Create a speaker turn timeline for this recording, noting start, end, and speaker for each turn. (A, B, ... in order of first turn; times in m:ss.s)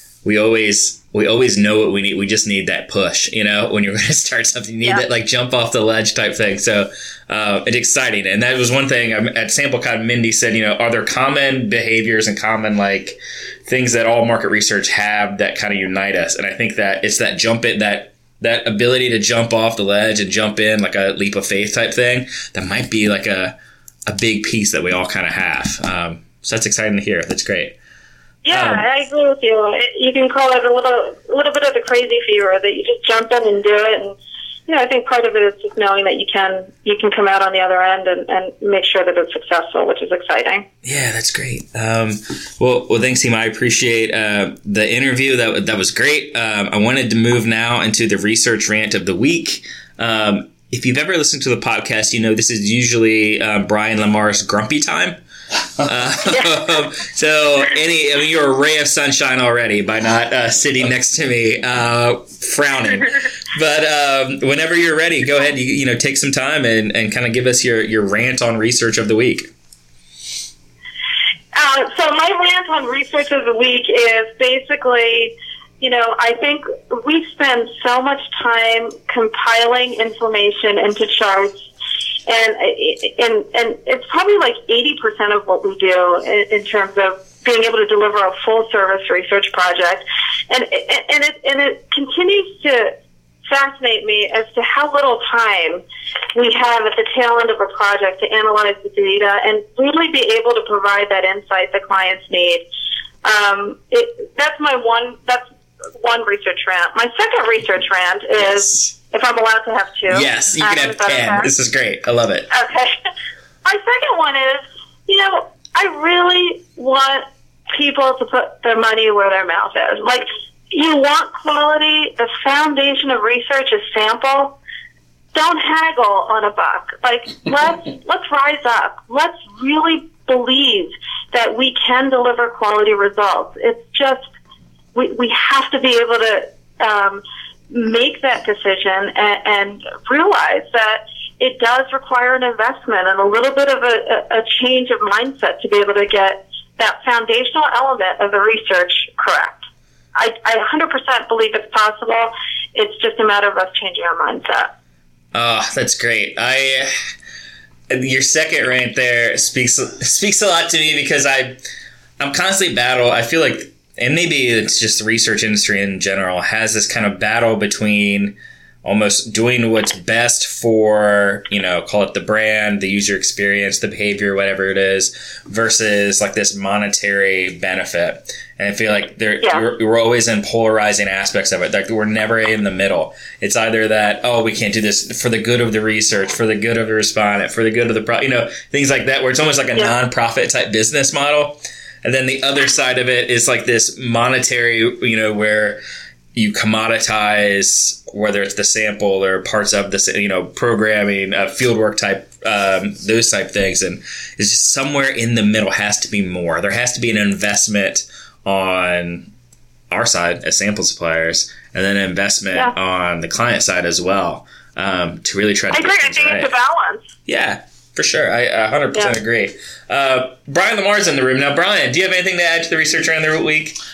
0:00.2-0:23.5 A
0:24.1-0:27.8 A
0:28.4-0:40.6 B
0:28.5-0:28.8 A
0:40.8-0:55.2 A
0:55.8-1:09.5 A
1:11.5-1:21.6 B
1:22.3-1:32.9 B
1:33.5-1:35.8 B
1:36.3-1:42.6 B
1:43.2-1:51.5 B
1:50.1-1:52.5 A
1:52.5-1:53.0 B
1:53.6-2:04.6 B
2:05.3-2:14.3 B
2:14.9-2:34.7 B
2:35.3-2:36.9 A
2:37.9-2:41.6 A
2:42.2-3:15.8 A
3:16.3-3:29.3 A
3:29.9-3:36.5 A
3:35.7-3:37.1 B
3:37.3-3:43.8 A